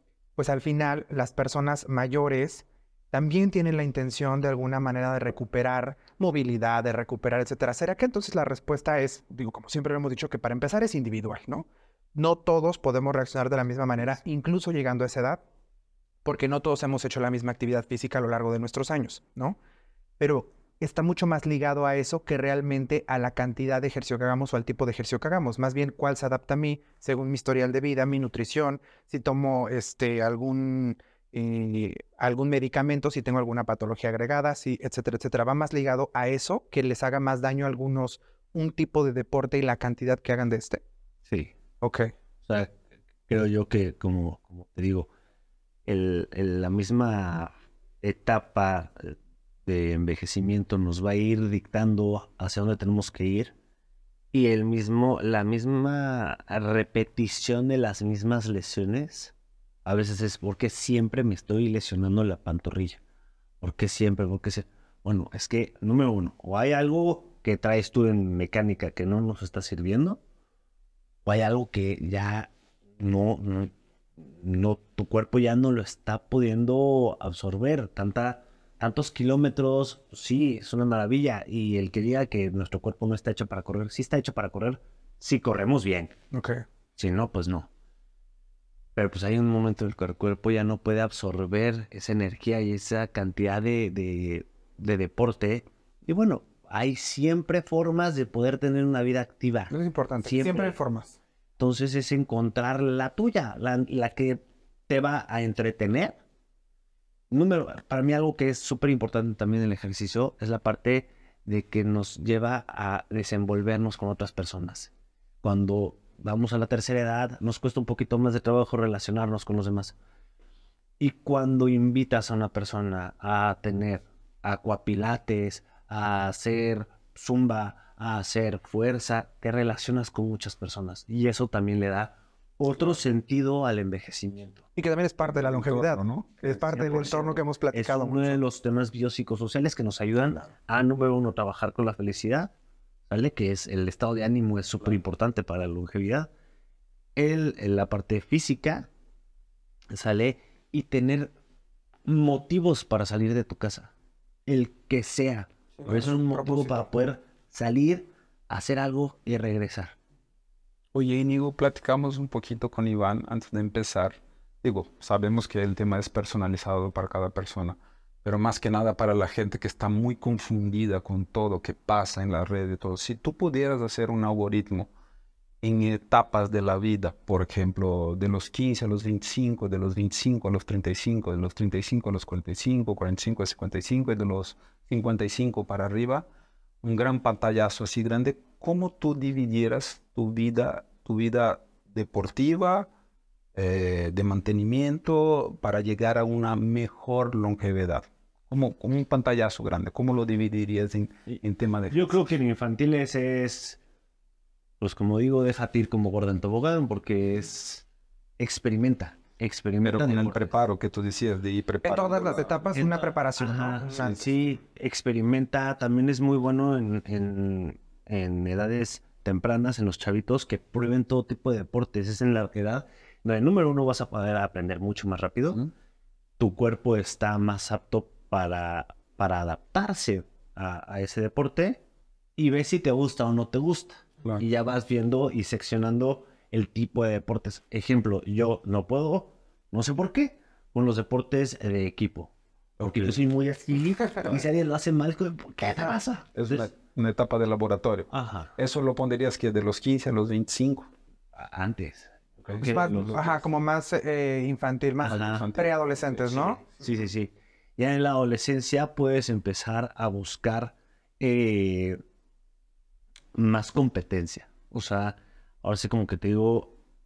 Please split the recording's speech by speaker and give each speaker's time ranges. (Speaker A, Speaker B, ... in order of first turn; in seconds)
Speaker A: 0.4-15.4, 16.2-19.6, 20.2-40.8, 41.8-42.1, 86.3-86.6, 99.7-101.2, 134.8-138.4, 155.8-156.9, 211.8-214.2, 252.6-256.6
Speaker B: 41.3-41.5, 42.5-42.7, 43.3-45.1, 45.9-53.5, 54.3-59.3, 59.9-63.0, 63.6-70.2, 71.2-86.1, 87.0-87.7, 89.0-100.8, 101.6-106.2, 107.3-114.9, 115.4-119.9, 121.0-134.6, 137.7-142.5, 143.1-146.3, 147.2-148.9, 149.9-151.3, 152.1-153.9, 154.4-159.9, 201.9-203.8, 204.8-207.9, 208.4-210.5, 212.7-225.7, 226.4-231.8, 232.4-246.7, 248.1-248.5, 251.3-253.2, 255.0-255.4, 256.8-262.0, 263.4-266.8
Speaker C: 135.4-137.2, 160.9-174.9, 175.6-186.2, 186.8-192.9, 193.5-202.2, 209.8-212.5, 242.8-243.2, 246.3-250.9, 252.4-253.3, 255.0-256.6